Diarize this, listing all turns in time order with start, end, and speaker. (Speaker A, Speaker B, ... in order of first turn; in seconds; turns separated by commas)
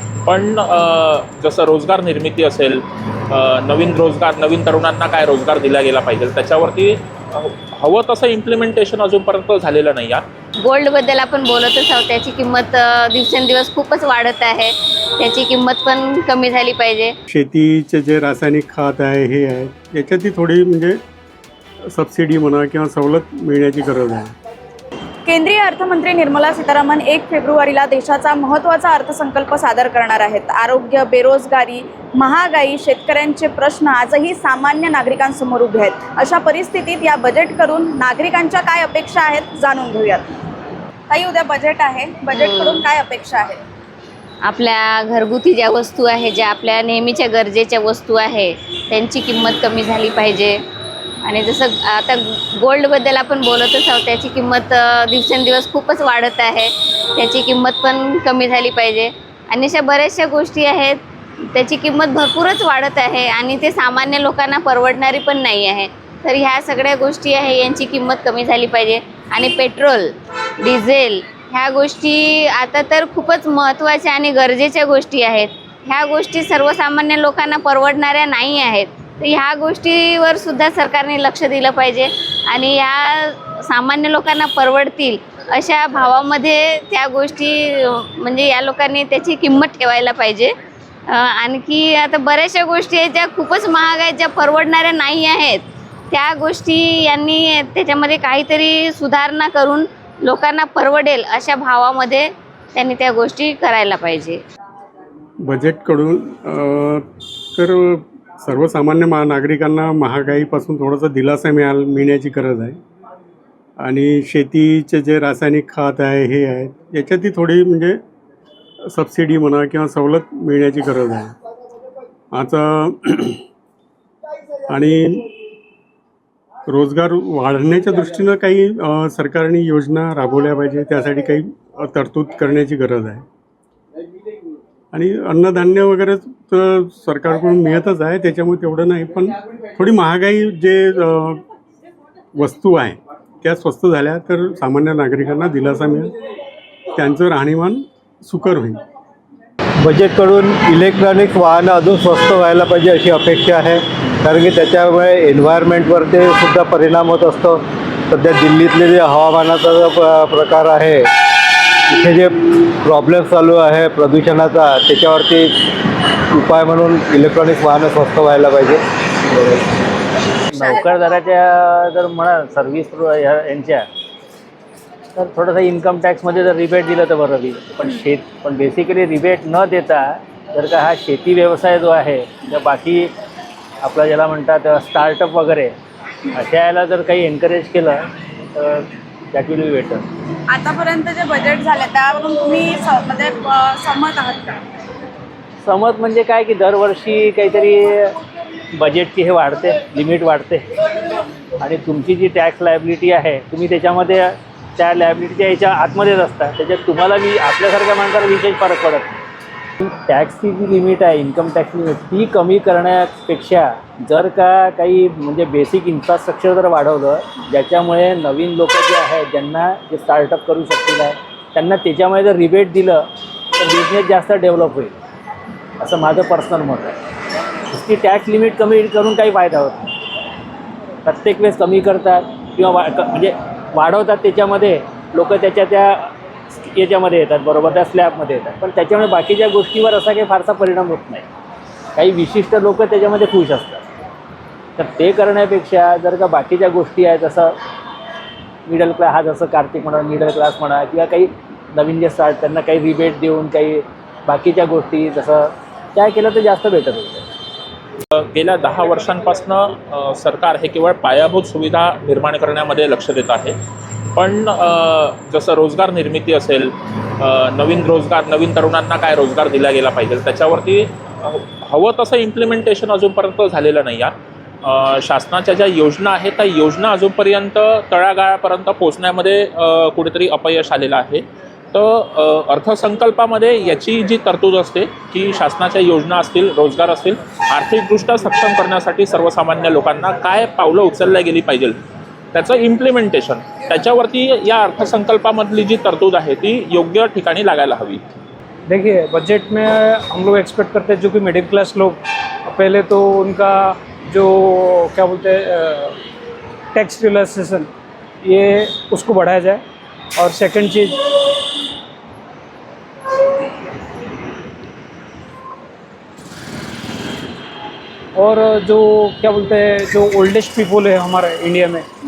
Speaker A: 0.2-10.2, Speaker B: 10.6-17.1, Speaker C: 17.3-21.0, Speaker C: 21.9-24.3, Speaker D: 25.2-40.3, Speaker D: 41.1-43.6, Speaker B: 44.4-50.6, Speaker B: 51.2-61.0, Speaker B: 61.5-70.1, Speaker B: 70.6-90.5, Speaker B: 91.1-104.4, Speaker C: 105.4-107.0, Speaker C: 107.5-112.8, Speaker C: 113.8-118.0, Speaker C: 118.9-121.3, Speaker C: 122.3-123.4, Speaker C: 124.7-125.2, Speaker C: 126.7-133.2, Speaker C: 134.9-141.4, Speaker C: 142.3-146.1, Speaker C: 146.9-148.8, Speaker E: 149.8-161.1, Speaker E: 161.9-165.5, Speaker E: 166.3-169.6, Speaker F: 170.5-173.8, Speaker D: 170.5-170.8, Speaker F: 175.1-183.1, Speaker F: 183.8-185.7, Speaker F: 186.3-190.1, Speaker D: 190.5-194.6, Speaker F: 195.6-198.2, Speaker F: 198.7-200.7, Speaker F: 201.6-209.2, Speaker F: 209.8-223.0, Speaker F: 223.6-224.9, Speaker F: 225.8-227.0, Speaker F: 227.7-229.9, Speaker F: 231.0-236.1, Speaker F: 236.6-241.2, Speaker F: 241.9-243.8, Speaker F: 244.8-247.5, Speaker F: 248.7-257.2, Speaker A: 258.1-263.6, Speaker A: 264.1-291.8, Speaker A: 292.3-298.0, Speaker G: 298.7-306.0, Speaker G: 306.7-307.7, Speaker G: 308.2-309.6, Speaker G: 310.2-311.1, Speaker G: 318.1-321.9